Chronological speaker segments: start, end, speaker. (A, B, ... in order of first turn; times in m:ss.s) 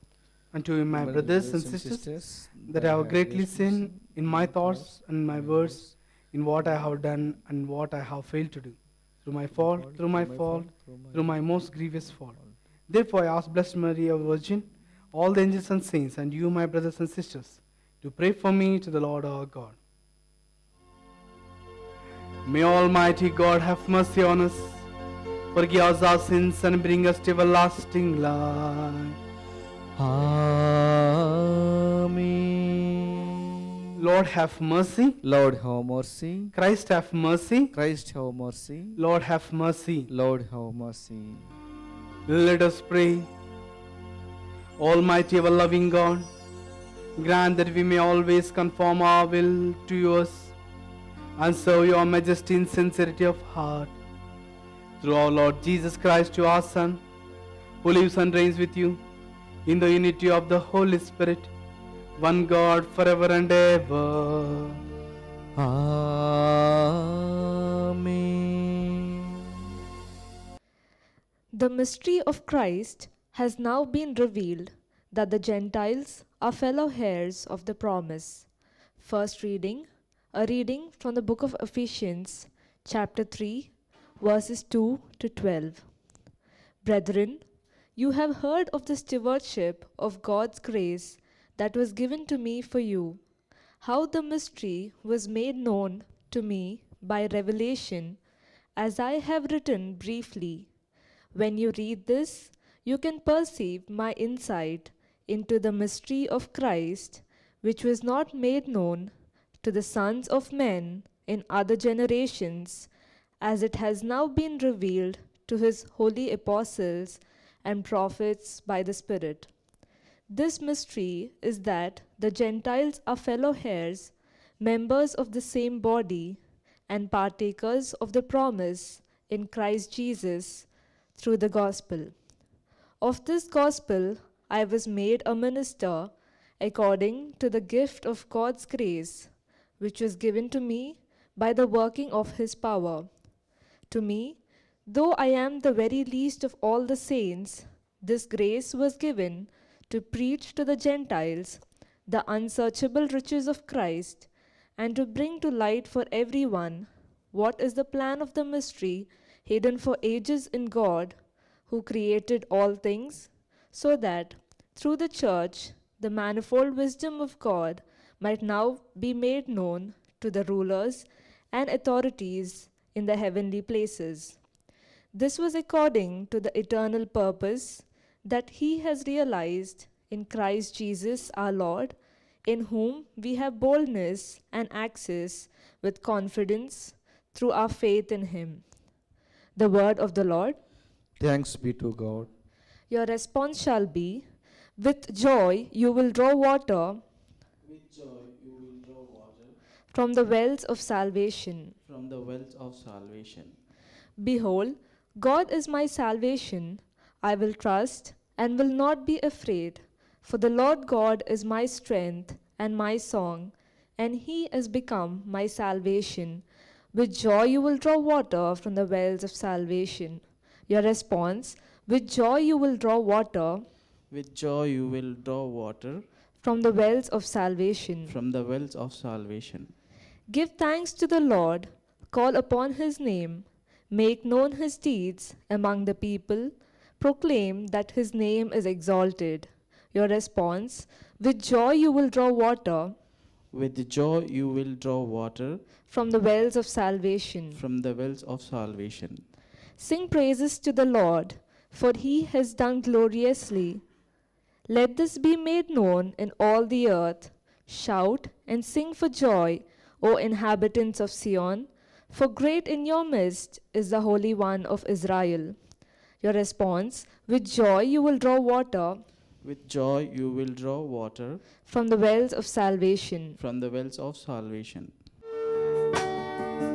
0:00.5-0:02.0 A
0:00.9-0:06.0 B
0:02.7-0:12.4 A
0:09.5-0:12.6 B
0:12.9-0:19.8 A
0:22.4-0:24.8 A
0:25.5-0:29.2 A
0:30.0-0:33.2 B
0:34.0-0:35.2 A
0:35.2-0:36.5 B
0:36.5-0:37.7 A
0:37.7-0:39.0 B
0:39.0-0:40.1 A
0:40.1-0:41.5 B
0:42.3-0:43.3 A
0:44.8-0:46.3 A
0:47.2-0:50.5 A
0:51.4-0:54.0 A
0:55.0-0:57.0 A
0:57.8-0:59.0 A
0:59.6-1:01.5 A
1:02.2-1:04.8 A
1:05.6-1:09.0 B
1:11.5-1:18.4 C
1:19.0-1:25.8 C
1:26.8-1:27.4 C
1:28.0-1:33.2 C
1:33.8-1:38.2 C
1:38.8-1:40.7 C
1:41.3-1:52.9 C
1:53.4-1:59.5 C
2:00.3-2:12.1 C
2:13.0-2:19.3 C
2:19.8-2:23.1 C
2:23.9-2:41.1 C
2:41.7-2:54.4 C
2:55.1-3:01.9 C
3:02.4-3:08.6 C
3:09.6-3:10.6 C
3:11.2-3:12.3 B
3:12.9-3:14.2 C
3:14.8-3:17.0 C
3:17.6-3:19.6 D
3:19.9-3:21.7 C
3:21.8-3:23.6 D
3:24.2-3:43.6 C
3:44.1-3:46.0 D
3:46.4-3:48.1 C
3:48.1-3:49.7 D
3:50.3-4:02.9 C
4:03.5-4:05.6 D
4:05.9-4:07.6 C
4:07.6-4:09.2 D
4:09.8-4:13.8 C
4:14.7-4:25.6 C
4:26.2-4:29.0 C
4:29.4-4:31.4 D
4:31.6-4:33.4 C
4:33.4-4:34.9 D